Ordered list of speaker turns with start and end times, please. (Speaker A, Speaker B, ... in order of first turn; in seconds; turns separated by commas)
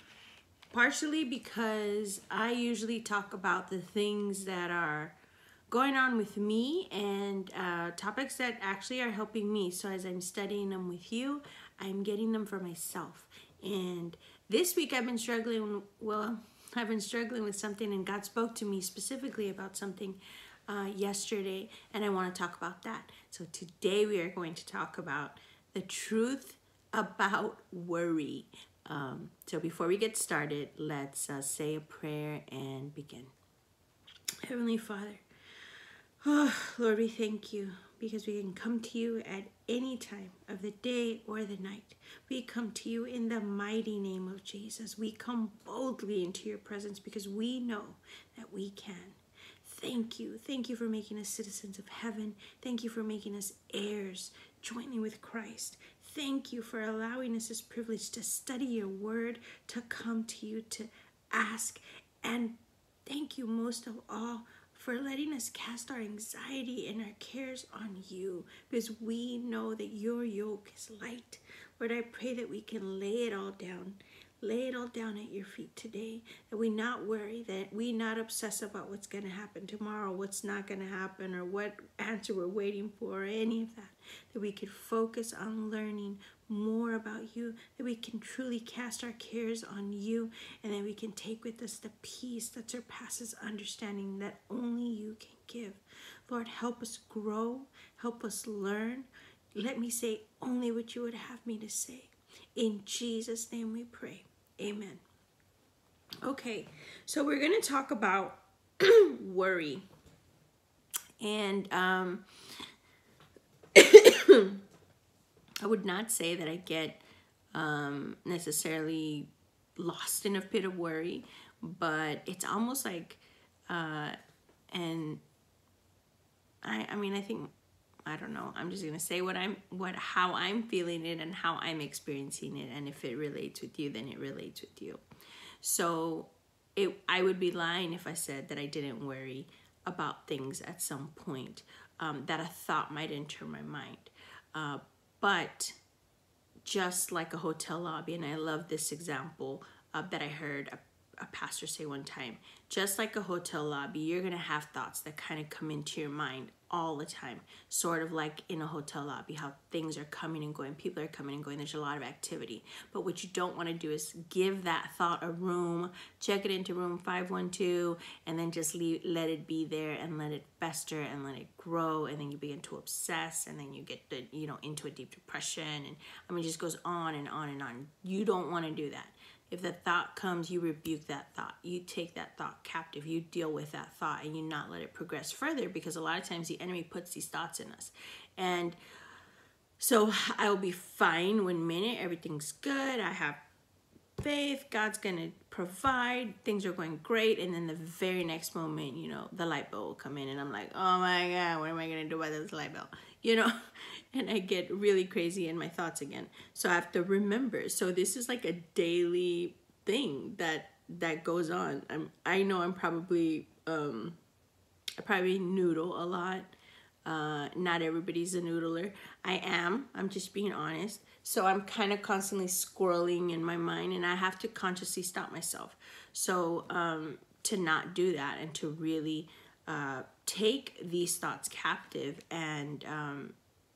Speaker A: 0.7-5.2, Speaker A: 5.7-33.3, Speaker A: 34.5-35.2, Speaker A: 36.2-105.0, Speaker A: 106.2-109.8, Speaker A: 111.2-112.2, Speaker A: 113.7-114.6, Speaker A: 115.6-117.0, Speaker A: 117.5-124.2, Speaker A: 124.7-125.2, Speaker A: 126.6-127.5, Speaker A: 128.1-135.0, Speaker A: 135.6-145.8, Speaker A: 146.7-188.8, Speaker A: 189.8-193.4, Speaker A: 194.2-203.5, Speaker A: 204.1-214.2, Speaker A: 215.0-216.5, Speaker A: 217.1-233.4